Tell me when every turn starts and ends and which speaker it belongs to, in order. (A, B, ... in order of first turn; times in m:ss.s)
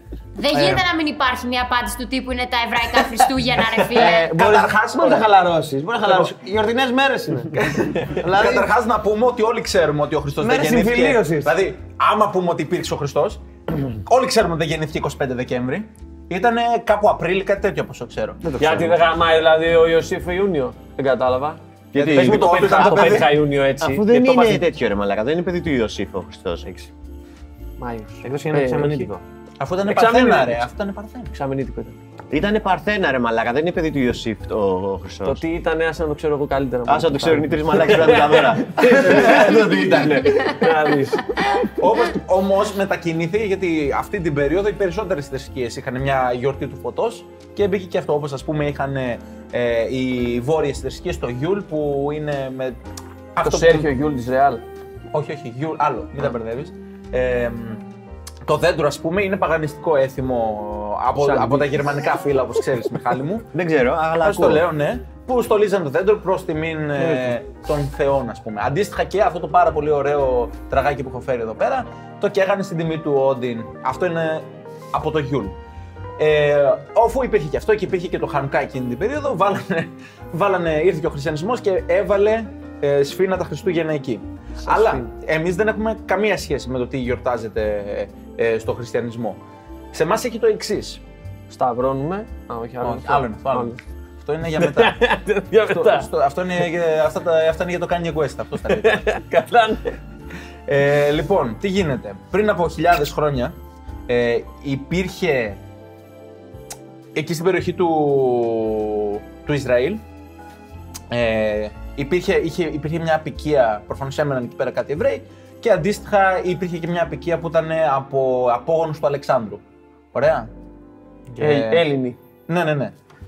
0:00.4-0:04.3 A
0:03.9-0:08.7 B
0:04.0-0:05.3 C
0:06.0-0:06.3 C
0:07.6-0:18.4 C
0:10.4-0:11.5 B
0:18.4-0:19.0 B
0:18.6-0:24.6 D
0:21.9-0:23.3 E
0:22.0-0:23.4 C
0:23.8-0:26.9 E
0:27.8-0:29.1 D
0:28.2-0:29.2 B
0:29.6-0:31.3 C
0:29.8-0:30.6 D
0:31.3-0:32.0 D
0:32.3-0:35.4 E
0:35.2-0:41.7 D
0:36.9-0:40.5 E
0:39.0-0:40.1 C
0:41.8-0:52.8 C
0:53.3-0:53.9 C
0:53.4-0:54.6 D
0:55.1-0:57.8 C
0:58.4-1:03.4 C
1:01.2-1:01.8 D
1:03.5-1:04.6 E
1:04.2-1:15.6 C
1:07.0-1:07.3 D
1:16.2-1:29.4 C
1:24.6-1:25.1 D
1:29.9-1:31.0 C
1:31.5-1:33.8 D
1:32.8-1:35.0 C
1:34.6-1:36.1 D
1:35.6-1:39.0 C
1:38.7-1:40.0 D
1:40.7-1:43.5 C
1:44.1-1:45.6 C
1:47.1-1:50.0 C
1:51.1-1:59.6 C
2:00.1-2:00.5 C
2:01.3-2:01.9 C
2:01.4-2:02.2 D
2:02.5-2:02.9 C